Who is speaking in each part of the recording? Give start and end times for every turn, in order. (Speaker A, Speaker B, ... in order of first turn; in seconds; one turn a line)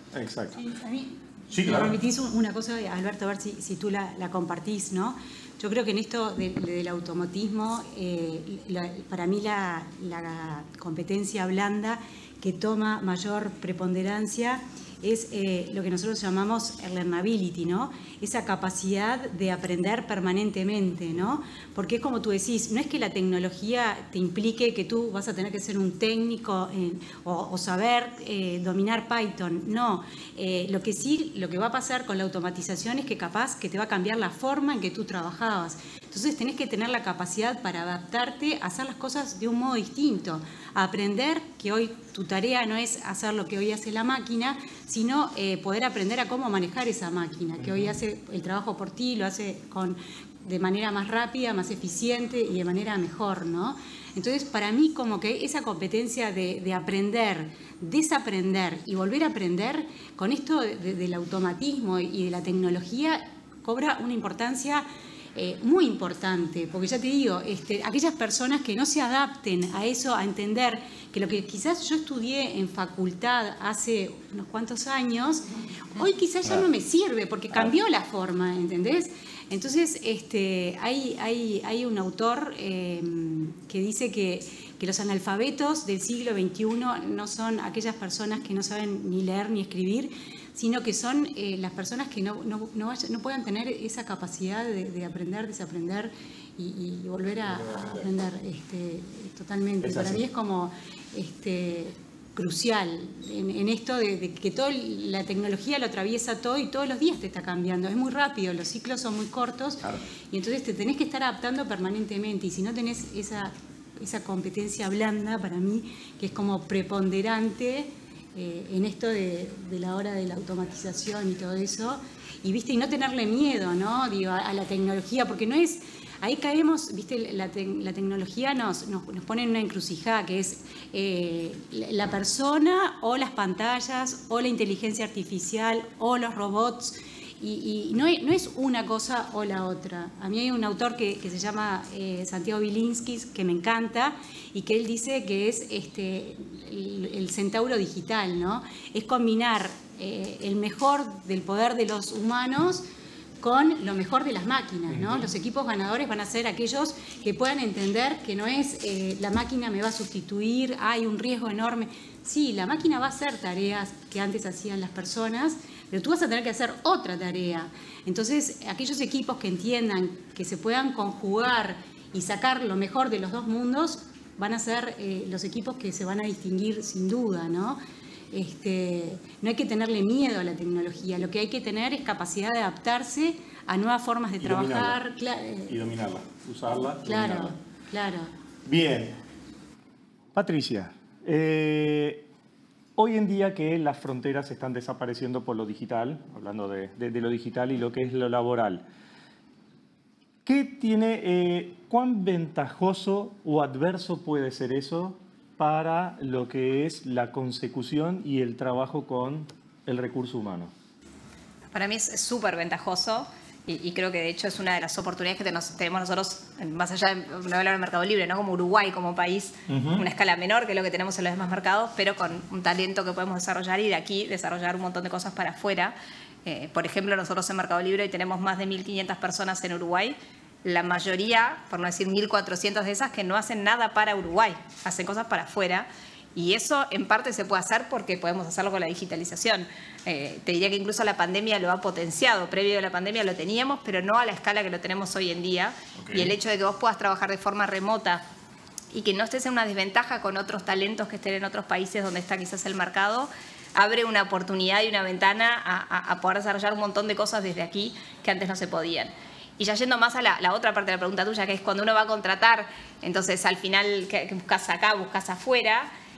Speaker A: 0.1-0.6
Speaker B: 0.6-152.8
Speaker A: 1.5-2.0
Speaker A: 47.6-47.9
Speaker A: 97.6-98.0
Speaker A: 99.8-100.2
Speaker B: 153.4-177.8
Speaker A: 155.0-155.3
Speaker B: 178.3-185.8
Speaker A: 184.4-185.0
Speaker A: 185.7-187.6
Speaker B: 187.0-188.3
Speaker A: 188.7-189.2
Speaker A: 190.3-192.3
Speaker A: 193.0-198.8
Speaker A: 200.4-210.7
Speaker C: 211.7-225.9
Speaker A: 219.7-220.1
Speaker C: 226.4-248.2
Speaker A: 246.0-246.3
Speaker C: 248.9-265.9